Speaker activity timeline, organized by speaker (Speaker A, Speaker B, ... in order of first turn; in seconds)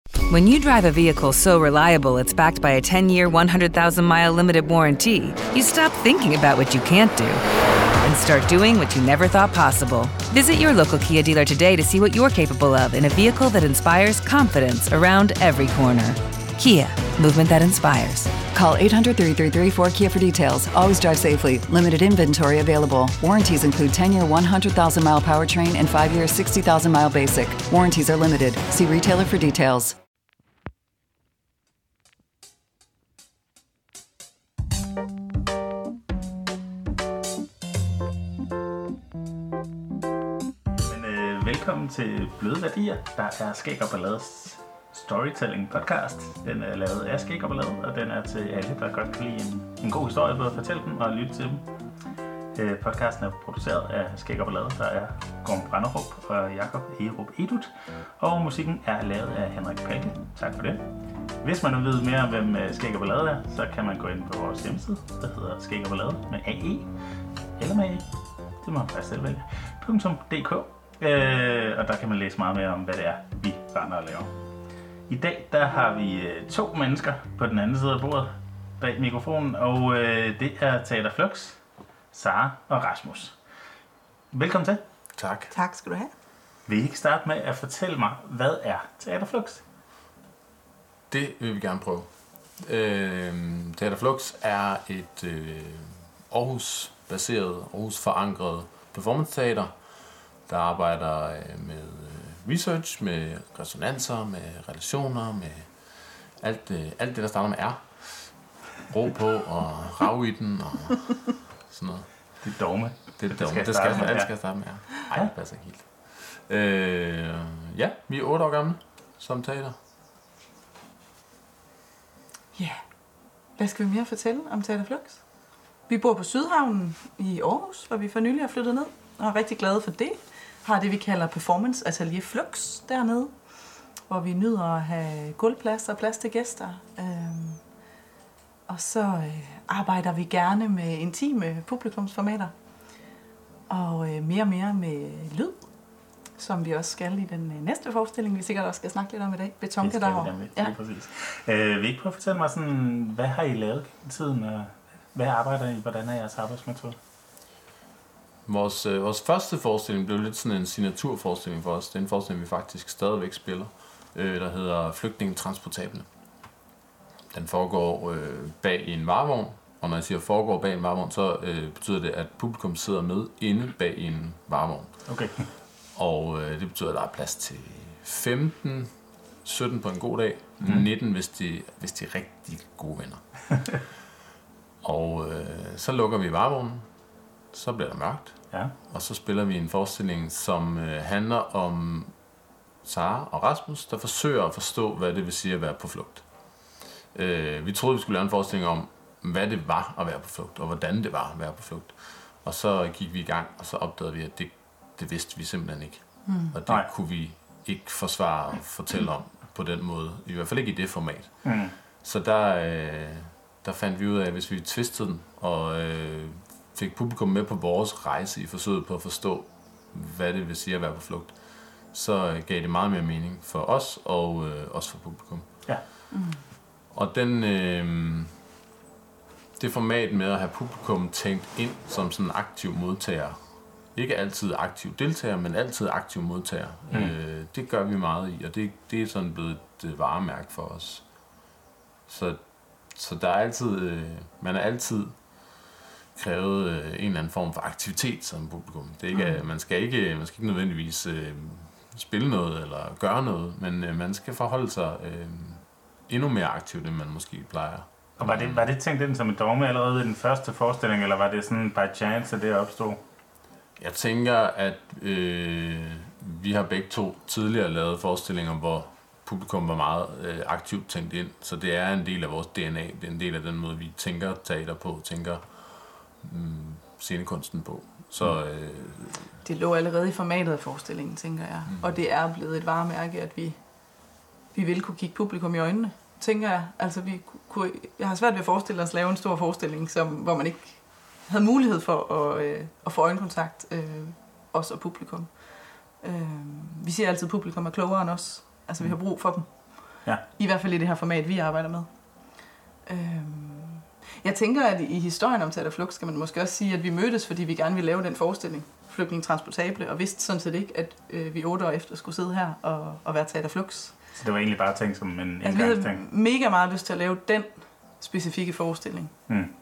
Speaker A: 0.3-7.4, 8.0-18.4
Speaker B: 18.4-29.9
Speaker C: 40.8-51.6, 52.5-60.8, 61.4-66.9, 67.6-68.0, 68.6-74.3, 75.1-81.6, 82.1-83.3, 84.3-85.5, 86.7-89.6, 112.4-114.3, 149.8-157.0, 175.1-175.5, 211.4-211.7, 258.2-263.0, 314.2-316.0
Speaker D: 85.5-86.1, 122.5-122.8, 123.6-125.2, 125.9-133.3, 134.1-137.6, 138.7-142.5, 143.7-145.6, 146.4-150.7, 206.3-206.5, 226.1-226.4, 249.1-249.4, 279.4-283.6, 284.5-295.3, 296.0-301.9, 302.9-313.9, 315.4-319.1
Speaker E: 91.1-99.7, 100.5-105.7, 106.4-112.1, 113.2-119.8, 158.4-166.1, 167.3-175.1, 175.9-183.2, 184.8-186.9, 187.5-192.1, 192.8-196.2, 197.1-211.5, 212.0-221.4, 221.9-225.6, 226.9-228.3, 229.6-233.4, 233.9-241.0, 242.1-245.6, 246.1-258.7, 263.8-279.3